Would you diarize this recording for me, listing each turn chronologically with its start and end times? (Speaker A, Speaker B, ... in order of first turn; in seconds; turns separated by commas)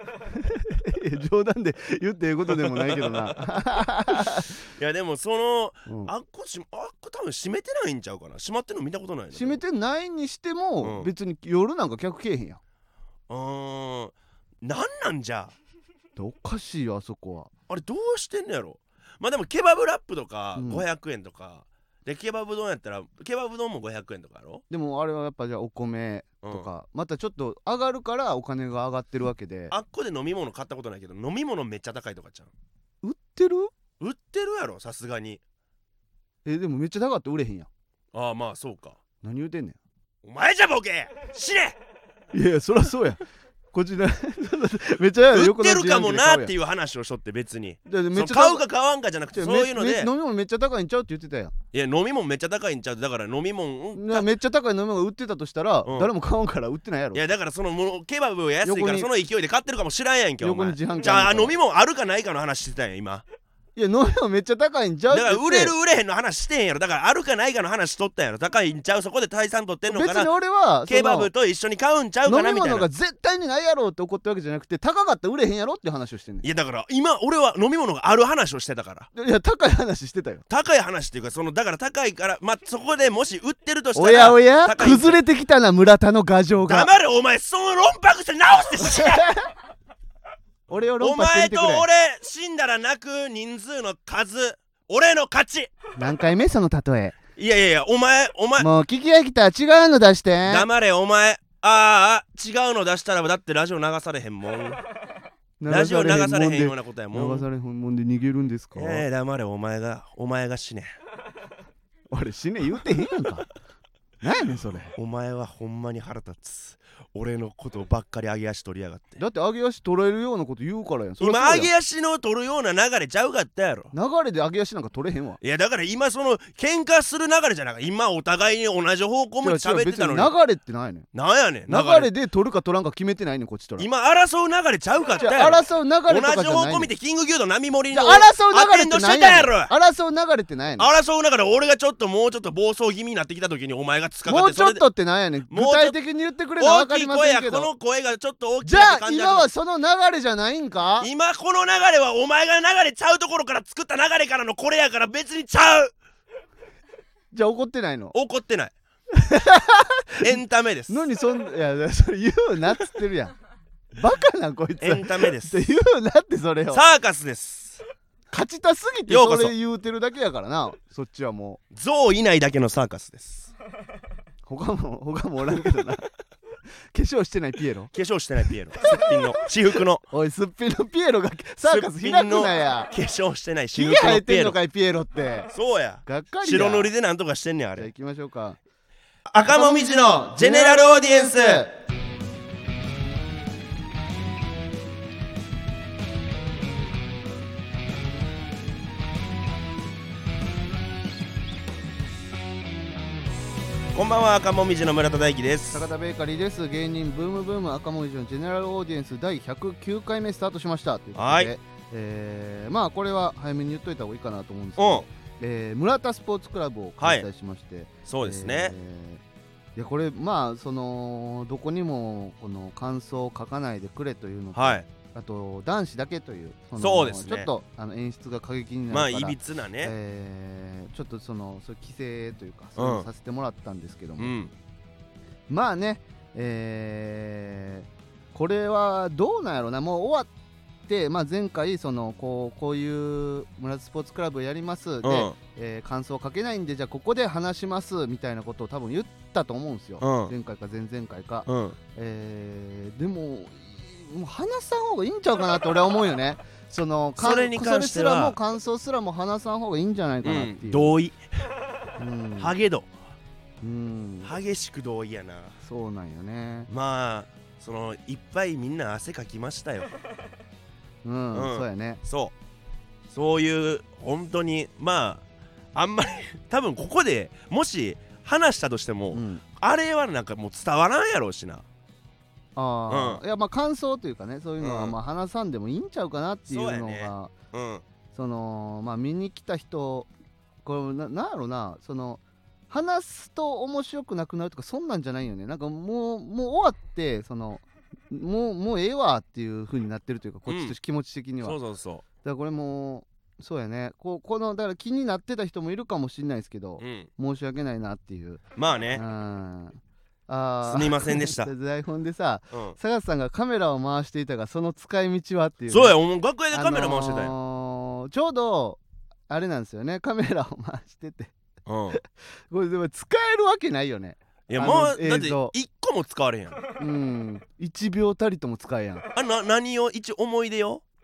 Speaker A: 0.3-4.7, Speaker B: 2.5-3.5, Speaker B: 4.1-9.6, Speaker A: 5.8-6.1, Speaker A: 9.3-12.6, Speaker B: 10.8-11.1, Speaker B: 13.3-15.5, Speaker A: 16.1-17.5, Speaker B: 17.7-24.6, Speaker A: 20.6-20.8, Speaker A: 24.7-29.7, Speaker B: 26.4-26.7, Speaker B: 29.7-32.5, Speaker A: 33.0-33.7, Speaker B: 34.0-35.4, Speaker A: 36.4-37.7, Speaker B: 38.1-39.0, Speaker A: 39.2-39.8, Speaker B: 40.2-41.8, Speaker A: 42.3-46.5, Speaker B: 45.3-50.1, Speaker A: 47.9-48.6, Speaker A: 49.3-51.5, Speaker B: 51.7-54.3, Speaker A: 53.9-57.2, Speaker B: 55.8-56.1, Speaker B: 57.1-63.2, Speaker A: 58.6-59.1, Speaker A: 60.4-61.5, Speaker A: 63.8-65.7, Speaker B: 65.1-70.3, Speaker A: 69.9-71.3, Speaker B: 70.9-72.9, Speaker A: 72.2-76.5, Speaker B: 76.4-79.1, Speaker A: 79.1-80.4, Speaker B: 80.5-85.2, Speaker A: 83.9-86.9, Speaker B: 86.6-89.3, Speaker A: 88.8-89.5, Speaker A: 90.7-91.8, Speaker B: 91.0-95.7, Speaker A: 96.0-97.2, Speaker B: 97.4-98.7, Speaker A: 98.6-100.7, Speaker B: 100.5-104.8, Speaker A: 105.6-109.0, Speaker B: 105.7-107.5, Speaker B: 108.8-110.9, Speaker A: 112.1-113.5, Speaker A: 114.2-114.9, Speaker B: 115.0-119.2, Speaker A: 119.2-121.7, Speaker B: 121.2-123.9, Speaker A: 123.9-125.4, Speaker B: 125.4-130.3, Speaker A: 129.4-131.1, Speaker B: 131.1-132.1, Speaker A: 131.7-133.9, Speaker B: 133.8-139.7, Speaker A: 135.2-136.9, Speaker A: 137.9-140.9, Speaker B: 140.8-144.8, Speaker A: 144.2-147.7, Speaker B: 145.5-146.0, Speaker B: 146.6-149.5, Speaker A: 148.6-151.1, Speaker B: 151.0-155.9, Speaker A: 157.3-158.1, Speaker B: 158.1-158.7, Speaker A: 159.1-163.3, Speaker B: 160.2-161.0, Speaker A: 163.9-166.8, Speaker B: 164.8-165.6, Speaker B: 166.7-167.8, Speaker A: 168.3-171.6, Speaker B: 169.1-169.5, Speaker B: 171.7-173.5, Speaker A: 174.4-176.1, Speaker A: 176.9-177.9, Speaker B: 177.9-180.0, Speaker A: 178.8-179.2, Speaker A: 180.1-182.9, Speaker B: 181.6-184.6, Speaker A: 183.7-185.5, Speaker B: 185.5-187.9, Speaker A: 186.0-186.9, Speaker A: 187.8-188.6, Speaker B: 189.3-191.7, Speaker A: 189.5-191.7, Speaker B: 203.9-205.8, Speaker A: 205.7-219.2, Speaker B: 211.2-211.5, Speaker B: 214.8-215.1, Speaker B: 217.0-217.2, Speaker B: 218.0-218.7, Speaker A: 219.8-234.3, Speaker B: 224.5-224.8, Speaker B: 226.8-227.5, Speaker B: 228.9-229.9, Speaker B: 232.8-233.1, Speaker B: 234.2-234.5, Speaker A: 235.5-240.3, Speaker A: 240.9-260.9, Speaker B: 245.0-245.3, Speaker B: 250.0-250.3, Speaker B: 251.5-251.8, Speaker B: 257.2-258.4, Speaker B: 260.2-261.2, Speaker A: 262.0-262.5, Speaker B: 262.4-262.9, Speaker A: 263.6-264.3, Speaker B: 264.2-265.6, Speaker A: 265.6-266.7, Speaker B: 266.7-269.9, Speaker A: 271.0-272.0, Speaker B: 271.3-272.3, Speaker B: 273.1-281.6, Speaker A: 279.1-279.4, Speaker A: 282.6-287.3, Speaker B: 282.9-283.2, Speaker B: 284.6-284.9, Speaker B: 286.5-287.8, Speaker A: 288.1-290.1, Speaker A: 290.6-301.6, Speaker B: 300.5-300.7, Speaker B: 301.4-302.0, Speaker A: 302.2-308.4, Speaker B: 306.8-307.1, Speaker B: 308.6-309.0, Speaker A: 308.9-315.9, Speaker B: 310.6-311.5, Speaker B: 312.5-312.8, Speaker B: 315.7-317.3, Speaker A: 316.5-321.3, Speaker B: 321.6-322.0, Speaker A: 321.9-325.5, Speaker B: 324.5-326.6, Speaker A: 326.8-329.1, Speaker B: 329.1-330.8